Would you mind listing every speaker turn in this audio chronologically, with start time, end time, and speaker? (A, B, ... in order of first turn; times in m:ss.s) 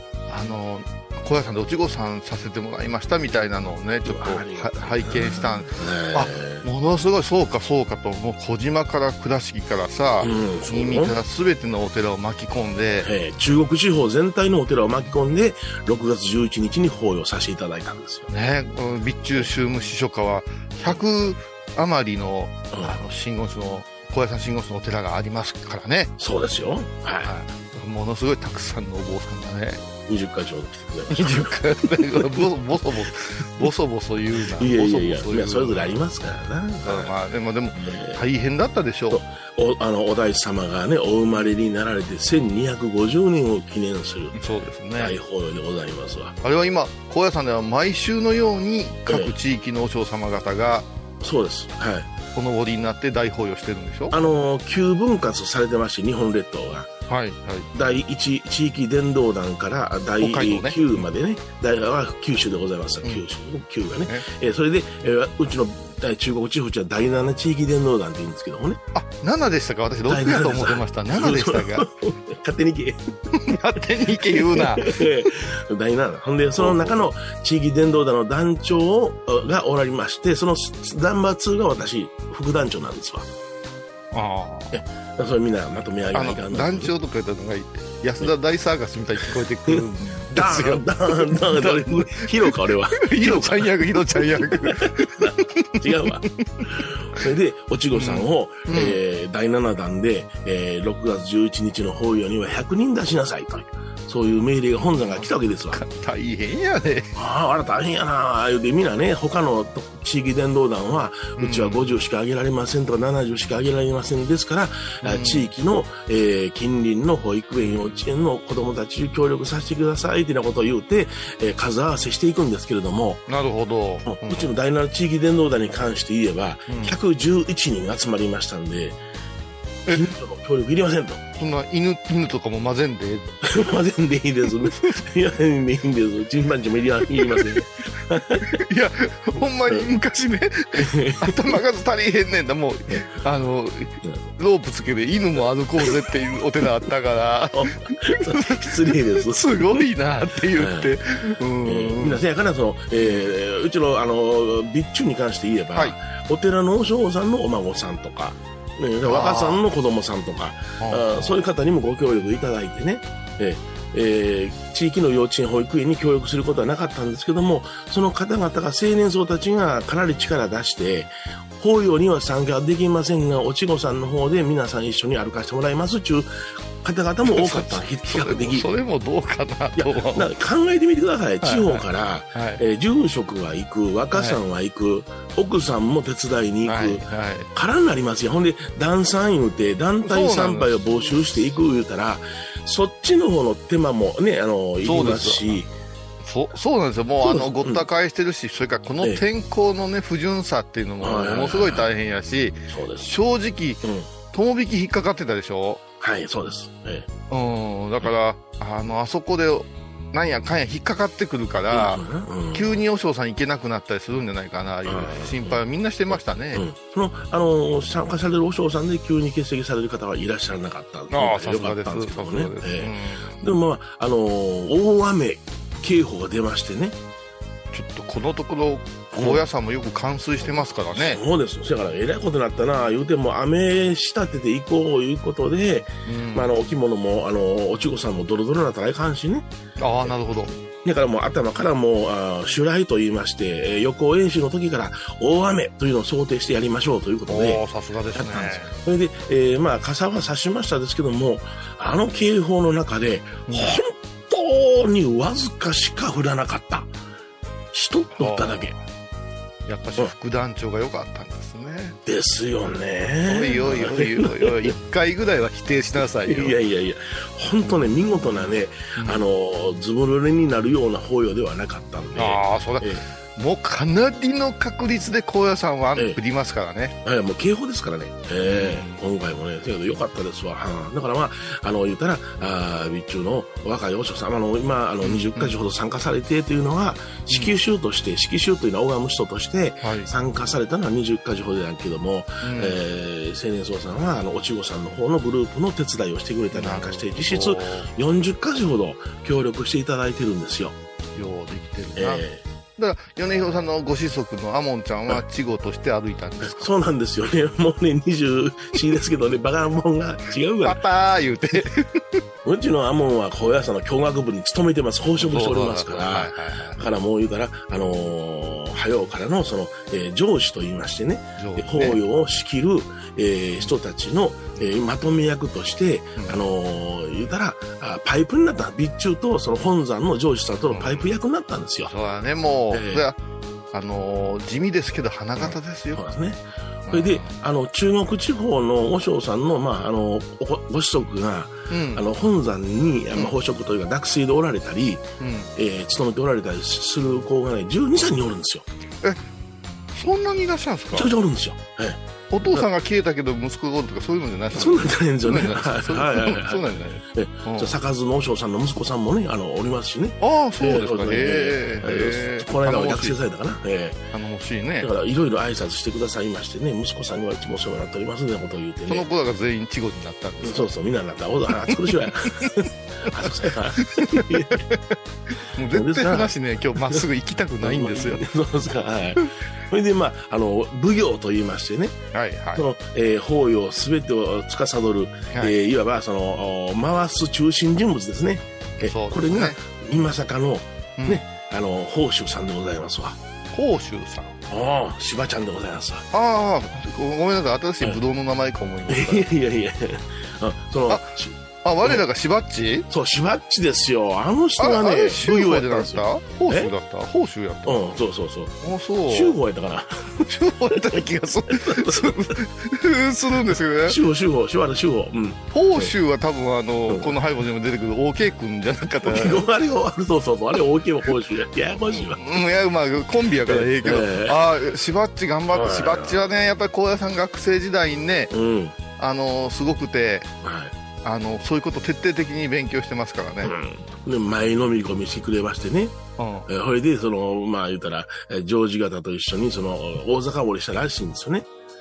0:00.3-0:13.1 A
0:04.0-0:06.6 B
0:10.2-0:11.2 B
0:13.0-0:18.3 B
0:18.3-0:26.1 A
0:22.7-0:23.0 B
0:26.2-0:27.3 B
0:27.2-0:29.8 A
0:30.1-0:32.5 B
0:31.1-0:36.0 A
0:34.5-0:37.1 B
0:36.8-0:39.2 A
0:37.7-0:38.2 B
0:39.1-0:44.4 B
0:44.3-0:45.2 A
0:45.0-0:46.3 B
0:46.4-0:50.9 A
0:49.1-0:49.3 B
0:51.2-0:52.1 B
0:52.3-0:54.2 A
0:54.1-0:56.9 B
0:57.1-0:57.7 A
0:57.7-1:08.8 B
1:00.2-1:00.8 A
1:08.9-1:11.9 A
1:10.0-1:23.3 B
1:13.3-1:15.0 A
1:16.6-1:17.1 A
1:24.1-1:24.8 A
1:24.7-1:26.9 B
1:26.1-1:36.0 A
1:29.2-1:45.8 B
1:37.9-1:39.0 A
1:45.0-1:47.2 A
1:47.1-2:03.2 B
1:51.4-1:51.8 A
1:55.0-1:55.5 A
2:03.3-2:04.5 A
2:04.0-2:09.0 B
2:06.7-2:07.0 A
2:09.9-2:11.2 B
2:11.3-2:13.5 A
2:13.4-2:18.6 B
2:17.2-2:17.6 A
2:18.4-2:32.2 A
2:20.7-2:21.6 B
2:22.9-2:23.2 B
2:25.8-2:26.0 B
2:27.5-2:29.9 B
2:30.5-2:31.0 B
2:31.6-2:56.3 B
2:33.0-2:33.3 A
2:39.0-2:39.6 A
2:40.8-2:41.4 A
2:56.8-2:58.7 B
2:57.3-3:00.3 A
2:59.8-3:15.7 B
3:01.4-3:02.6 A
3:04.1-3:04.4 A
3:06.6-3:07.5 A
3:10.0-3:11.2 A
3:14.8-3:15.5 A
3:16.2-3:25.8 A
3:17.2-3:17.8 B
3:21.0-3:21.9 B
3:22.7-3:23.1 B
3:23.8-3:24.1 B
3:26.0-3:27.1 B
3:27.3-3:36.6 A
3:31.7-3:32.8 B
3:34.8-3:47.0 B
3:41.1-3:43.4 A
3:47.7-3:51.2 A
3:49.1-3:49.4 B
3:50.4-3:59.5 B
3:56.0-3:56.5 A
3:59.8-4:00.5 A
4:00.0-4:07.6 B
4:07.3-4:08.7 A
4:08.1-4:16.9 B
4:13.5-4:13.8 A
4:17.7-4:18.8 B
4:18.2-4:18.8 A
4:19.7-4:22.0 A
4:22.0-4:24.7 B
4:23.3-4:26.6 A
4:26.2-4:33.0 B
4:27.7-4:29.3 A
4:32.2-4:36.9 A
4:35.9-4:36.2 B
4:37.0-5:00.8 B
4:38.4-4:39.0 A
4:45.0-4:45.6 A
4:47.3-4:47.6 A
4:49.8-4:50.1 A
4:52.4-4:52.8 A
4:56.5-4:57.9 A
5:01.1-5:02.2 A
5:01.9-5:02.4 B
5:02.8-5:06.7 A
5:06.4-5:10.8 B
5:10.6-5:12.2 A
5:12.4-5:31.9 B
5:15.2-5:16.8 A
5:21.4-5:22.0 A
5:26.2-5:26.4 A
5:30.7-5:31.1 A
5:31.8-5:33.2 A
5:32.7-5:33.0 B
5:33.7-5:36.0 A
5:35.4-5:48.7 B
5:36.9-5:37.4 A
5:41.7-5:42.0 A
5:45.2-5:45.5 A
5:49.9-5:51.1 A
5:50.9-5:52.6 B
5:52.3-5:57.7 A
5:54.5-6:04.0 B
6:00.2-6:03.2 A
6:04.1-6:04.9 A
6:04.8-6:09.1 B
6:08.9-6:10.7 A
6:10.4-6:14.6 B
6:13.9-6:18.2 A
6:15.7-6:17.0 B
6:17.6-6:22.0 B
6:22.1-6:22.6 A
6:22.5-6:33.2 B
6:28.8-6:29.6 A
6:31.0-6:31.2 A
6:33.5-6:34.4 A
6:34.5-6:36.0 B
6:36.1-6:39.3 A
6:38.9-6:42.0 B
6:40.9-6:42.9 A
6:42.9-6:46.7 B
6:44.6-6:47.9 A
6:47.6-6:48.5 B
6:48.6-6:49.4 A
6:49.1-6:52.4 B
6:50.2-6:54.0 A
6:53.5-6:55.9 B
6:55.5-6:59.5 A
6:56.9-6:57.2 B
6:59.0-7:02.2 B
7:01.9-7:08.3 A
7:03.4-7:04.5 B
7:05.5-7:06.3 B
7:08.3-7:08.8 B
7:09.0-7:10.3 A
7:10.4-7:10.8 B
7:11.0-7:13.5 A
7:13.4-7:21.5 B
7:16.2-7:16.5 A